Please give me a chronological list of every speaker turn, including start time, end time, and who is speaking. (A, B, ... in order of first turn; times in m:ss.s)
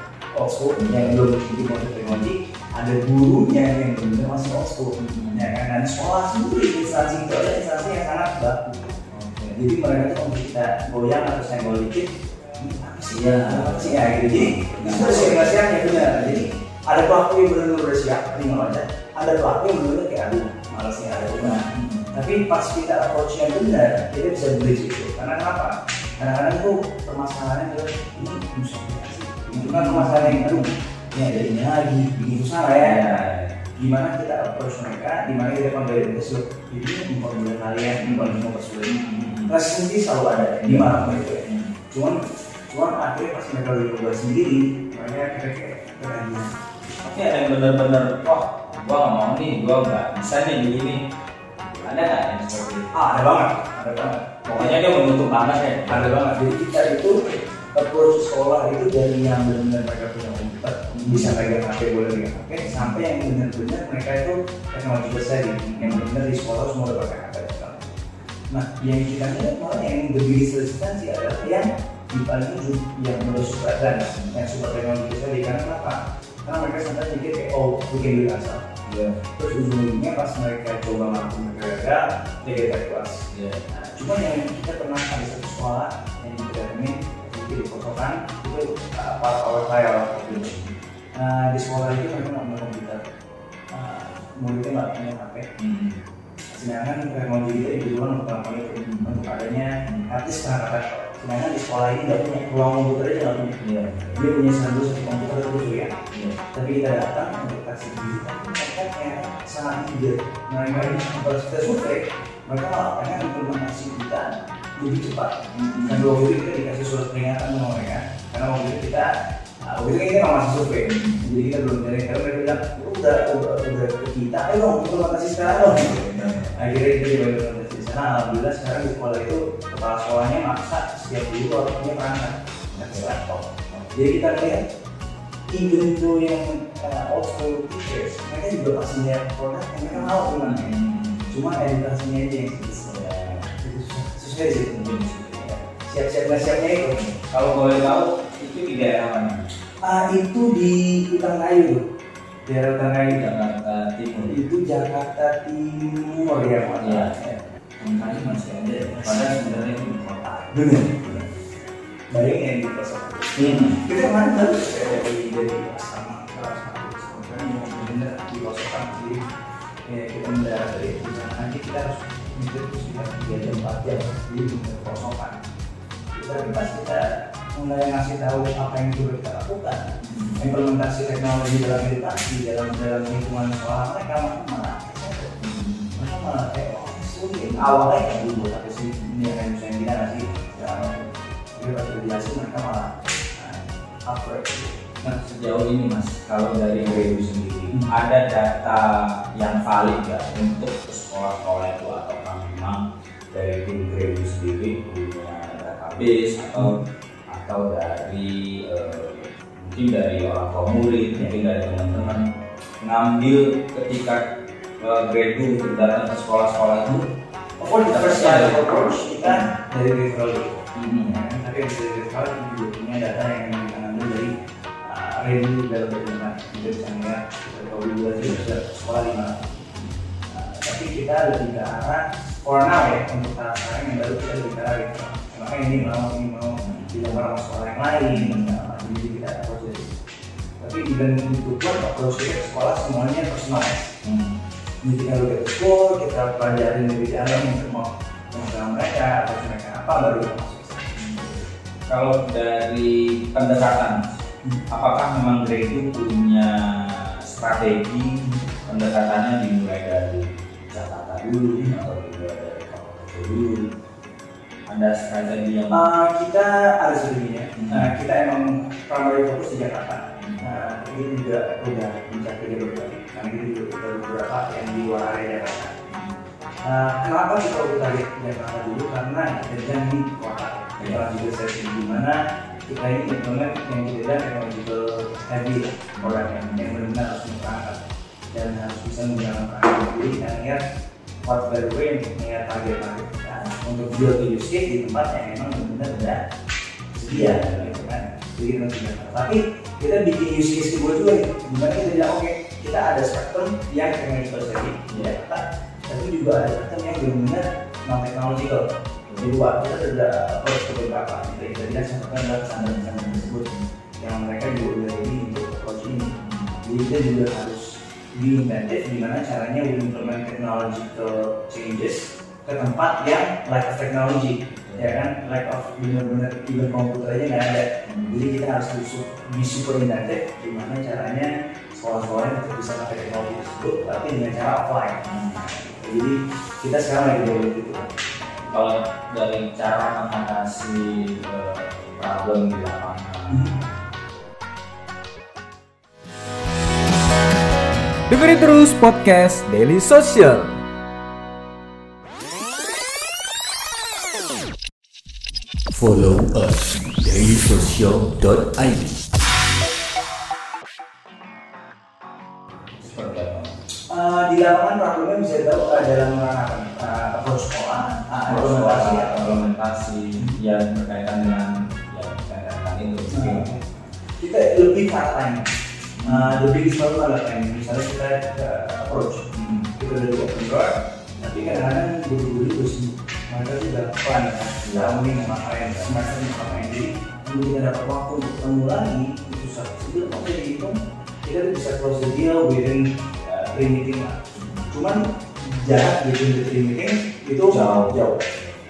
0:00.4-0:09.0 A
0:00.8-0:01.3 B
0:05.0-0:05.5 B
0:09.1-0:09.6 B
0:09.5-0:33.2 A
0:13.1-0:16.4 B
0:21.4-0:22.2 B
0:29.6-0:30.6 B
0:32.8-0:33.7 B
0:33.8-0:46.5 A
0:38.0-0:39.6 B
0:40.6-0:41.8 B
0:47.0-0:51.0 B
0:51.6-0:53.0 B
0:52.9-0:54.8 A
0:54.5-0:56.2 B
0:55.9-1:07.9 A
1:00.9-1:01.5 B
1:02.6-1:03.0 B
1:05.7-1:06.0 B
1:08.5-1:18.7 A
1:18.9-1:19.2 B
1:19.4-1:30.6 A
1:23.3-1:23.6 B
1:30.3-1:30.7 B
1:31.2-1:33.0 A
1:33.7-1:35.5 A
1:35.6-1:36.0 B
1:36.5-1:43.6 A
1:38.8-1:39.2 B
1:43.6-1:44.2 B
1:44.2-1:46.0 A
1:46.1-1:46.4 B
1:46.5-1:59.1 A
1:55.5-1:56.2 B
1:59.6-2:14.6 A
2:00.8-2:01.2 B
2:05.4-2:06.6 B
2:12.7-2:14.0 B
2:15.5-2:24.9 A
2:19.8-2:21.4 B
2:22.9-2:23.5 B
2:24.7-2:25.6 B
2:25.6-2:27.0 A
2:26.9-2:29.5 B
2:29.8-2:31.8 A
2:32.5-2:33.2 A
2:33.1-2:34.4 B
2:34.3-2:38.4 A
2:36.8-2:37.2 B
2:37.8-2:41.4 B
2:38.9-2:39.7 A
2:40.5-2:41.3 A
2:42.1-2:49.3 A
2:43.4-2:43.8 B
2:49.9-2:55.4 A
2:56.1-3:05.4 A
3:00.0-3:00.4 B
3:05.4-3:06.0 B
3:06.0-3:15.0 A
3:07.5-3:07.8 B
3:15.0-3:32.3 B
3:32.8-3:34.2 B
3:34.8-3:37.1 B
3:37.6-3:44.3 A
3:37.6-3:39.5 B
3:40.8-3:41.1 B
3:44.8-3:59.9 A
3:48.2-3:48.4 B
3:56.6-3:57.0 B
3:58.1-3:58.6 B
4:00.6-4:03.9 A
4:04.0-4:04.4 B
4:04.8-4:11.0 A
4:11.0-4:23.7 B
4:24.7-4:25.8 B
4:25.7-4:35.7 A
4:27.6-4:27.9 B
4:30.2-4:30.5 B
4:35.9-4:36.2 B
4:36.6-4:42.2 A
4:42.7-4:47.8 A
4:46.0-4:46.8 B
4:48.3-4:50.6 A
4:51.2-4:56.2 A
4:56.9-5:08.6 A
4:57.1-4:57.8 B
5:04.9-5:05.2 B
5:09.1-5:09.4 B
5:09.2-5:38.5 A
5:12.6-5:13.6 B
5:16.2-5:16.6 B
5:24.5-5:25.1 B
5:27.8-5:28.2 B
5:35.0-5:35.5 B
5:38.5-5:43.7 B
5:43.3-5:43.6 A
5:48.1-5:50.6 C
5:55.7-5:59.1 C
6:02.8-6:03.6 B
6:03.9-6:09.4 A
6:08.2-6:13.5 B
6:13.1-6:15.5 A
6:16.0-6:16.4 B
6:16.0-6:19.2 A
6:19.3-6:19.7 B
6:19.8-6:38.2 A
6:21.2-6:21.7 B
6:24.6-6:26.0 B
6:34.3-6:34.8 B
6:37.5-6:38.5 B